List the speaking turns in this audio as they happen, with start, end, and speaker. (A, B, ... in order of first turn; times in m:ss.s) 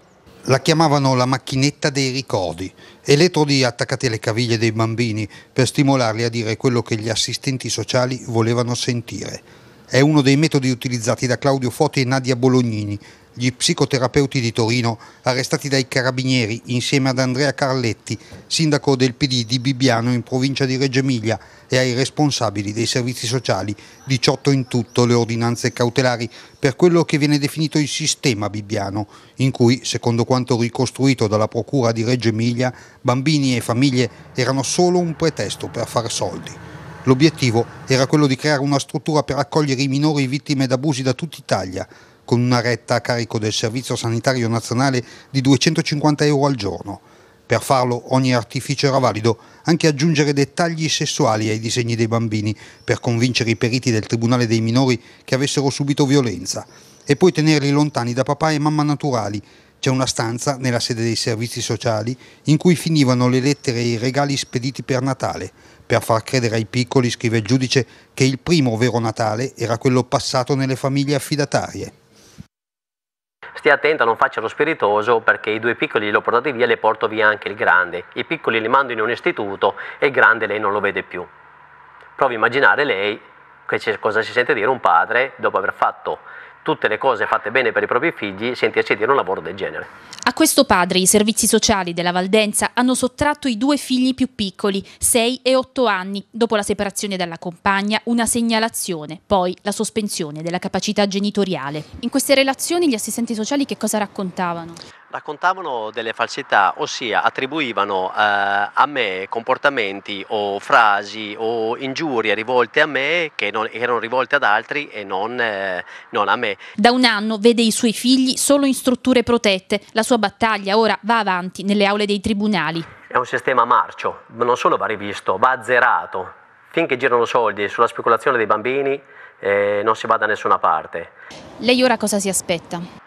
0:00.5-1:11.9 A
1:13.6-1:21.3 B
1:22.2-1:29.9 B
1:30.3-1:44.8 C
1:45.1-1:56.6 B
1:56.8-2:02.9 C
2:03.1-2:11.1 B
2:11.6-2:12.8 C